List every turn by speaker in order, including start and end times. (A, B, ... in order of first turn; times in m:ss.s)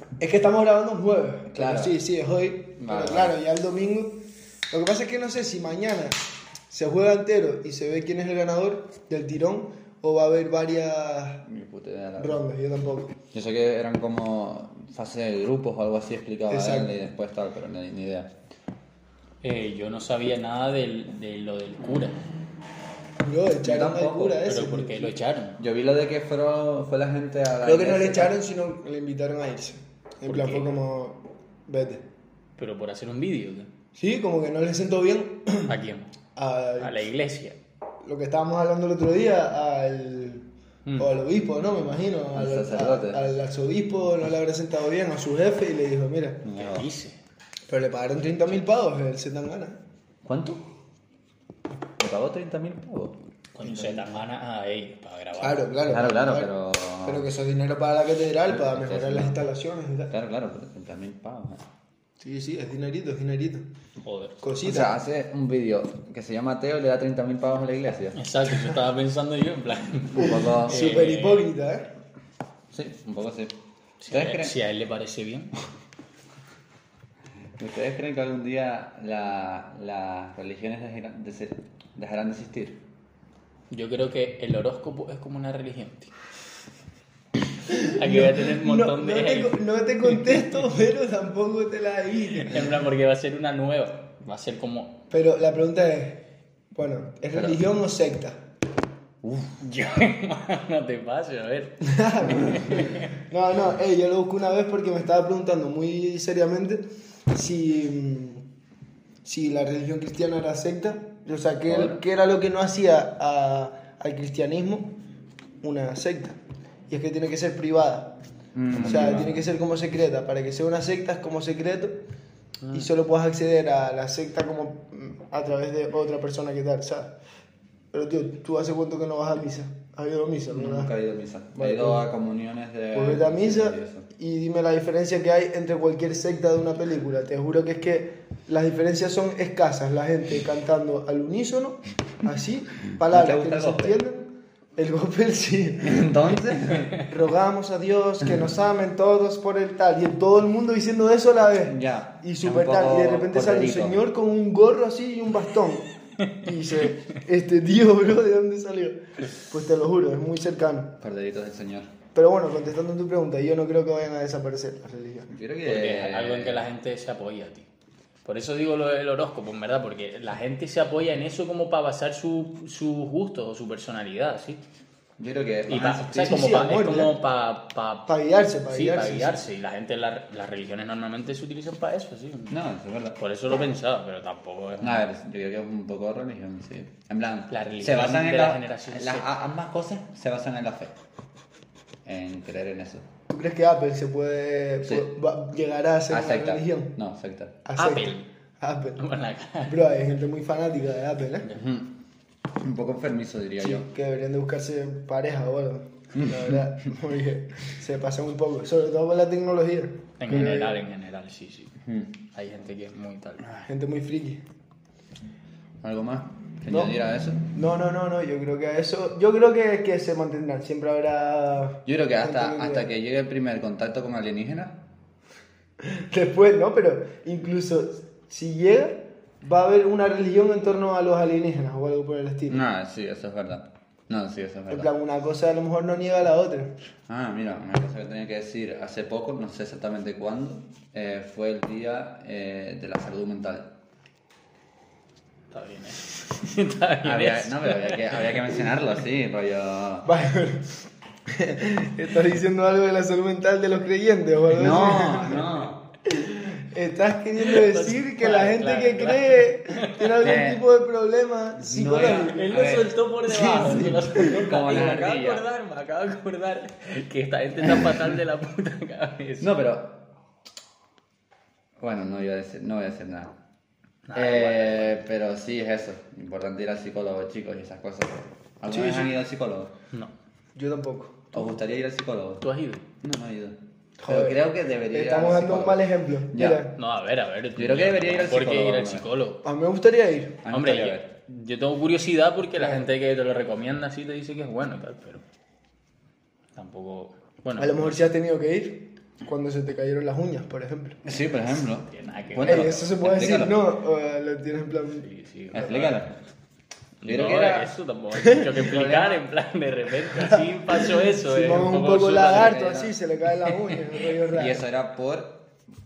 0:00.2-0:11.4 A
0:01.5-0:02.0 B
0:02.8-0:03.3 B
0:11.4-0:12.4 B
0:12.2-0:13.2 A
0:13.3-0:18.3 B
0:16.5-0:17.0 A
0:19.4-0:22.2 C
0:23.2-0:25.2 A
0:23.6-0:24.5 B
0:24.4-0:25.6 C
0:25.6-0:28.3 B
0:27.6-0:32.0 A
0:30.2-0:30.7 C
0:32.6-0:33.7 C
0:34.0-0:35.7 A
0:35.6-0:36.1 C
0:36.4-0:37.0 A
0:36.8-0:37.6 C
0:38.0-0:40.5 A
0:41.0-0:46.4 A
0:42.3-0:43.2 B
0:46.4-0:46.8 B
0:46.5-0:47.2 C
0:47.7-0:49.8 A
0:50.2-0:50.6 B
0:52.0-0:53.2 B
0:53.6-0:55.6 C
0:53.6-0:54.0 A
0:55.4-0:56.5 A
0:55.8-0:57.3 B
0:57.0-1:00.1 A
0:58.5-0:59.4 B
1:00.1-1:01.6 B
1:02.2-1:03.6 A
1:04.0-1:04.4 C
1:04.4-1:04.9 A
1:04.6-1:08.2 B
1:08.1-1:11.5 C
1:10.1-1:11.0 B
1:10.6-1:11.9 A
1:12.7-1:13.5 B
1:14.0-1:15.5 C
1:14.1-1:14.5 B
1:17.6-1:22.8 B
1:23.7-1:26.1 C
1:27.7-1:32.8 A
1:27.7-1:30.4 C
1:32.4-1:35.0 C
1:35.1-1:38.4 A
1:37.3-1:37.6 B
1:39.2-1:39.6 B
1:39.6-1:43.0 C
1:41.9-1:48.4 A
1:49.2-1:55.0 A
1:51.7-1:52.0 B
1:55.6-1:58.1 A
1:58.5-1:59.4 B
1:58.7-2:02.0 A
2:02.7-2:07.1 A
2:07.9-2:10.9 A
2:10.5-2:14.1 B
2:11.6-2:12.0 A
2:12.9-2:35.9 A
2:23.0-2:24.0 B
2:25.8-2:27.0 B
2:31.6-2:34.0 B
2:36.4-2:41.0 A
2:41.0-2:41.9 B
2:42.1-2:45.3 A
2:45.3-2:46.6 B
2:45.6-2:47.7 C
2:48.2-2:54.6 C
2:55.2-2:56.4 B
2:55.7-2:58.1 C
2:56.1-2:57.1 A
2:58.1-2:59.4 A
2:58.7-3:02.6 C
3:02.5-3:03.2 B
3:03.2-3:05.0 C
3:04.8-3:10.9 B
3:07.5-3:09.3 C
3:12.0-3:13.0 B
3:13.3-3:16.9 A
3:16.1-3:17.6 B
3:17.6-3:19.0 A
3:17.8-3:18.3 C
3:19.0-3:19.8 C
3:19.6-3:21.5 A
3:21.5-3:21.9 B
3:22.6-3:23.9 B
3:23.6-3:30.8 A
3:26.1-3:26.6 B
3:30.2-3:31.8 C
3:31.8-3:32.1 B
3:32.3-3:33.5 C
3:33.7-3:34.4 A
3:35.8-3:37.4 B
3:36.7-3:36.9 A
3:37.5-3:42.9 A
3:41.8-3:44.8 B
3:45.8-3:52.6 A
3:52.5-3:54.9 B
3:54.7-3:56.7 A
3:57.1-4:03.7 B
4:05.5-4:08.2 C
4:07.0-4:10.1 B
4:10.0-4:15.5 A
4:14.5-4:15.9 B
4:16.0-4:22.4 A
4:17.4-4:20.3 C
4:20.2-4:20.6 B
4:21.6-4:22.9 B
4:22.0-4:29.5 C
4:23.3-4:24.4 A
4:24.2-4:25.4 B
4:29.4-4:30.0 B
4:31.8-4:33.3 B
4:34.1-4:35.0 C
4:34.1-4:39.7 B
4:38.7-4:39.1 A
4:40.5-4:41.6 A
4:41.3-4:42.4 B
4:42.4-4:42.8 C
4:43.0-4:43.6 B
4:44.0-4:46.7 A
4:44.1-4:46.7 B
4:46.7-4:49.4 C
4:47.6-4:49.0 B
4:49.4-4:50.4 A
4:50.4-4:51.1 B
4:50.5-4:55.2 C
4:52.6-4:52.8 A
4:56.5-4:58.0 C
4:57.6-5:01.0 A
5:01.0-5:03.6 B
5:01.9-5:02.8 C
5:02.4-5:05.0 A
5:05.0-5:06.0 C
5:05.5-5:06.1 B
5:07.0-5:12.6 C
5:07.0-5:07.7 B
5:08.2-5:08.5 A
5:08.4-5:09.2 B
5:10.2-5:14.6 A
5:11.9-5:13.0 B
5:13.5-5:13.8 C
5:14.3-5:15.4 B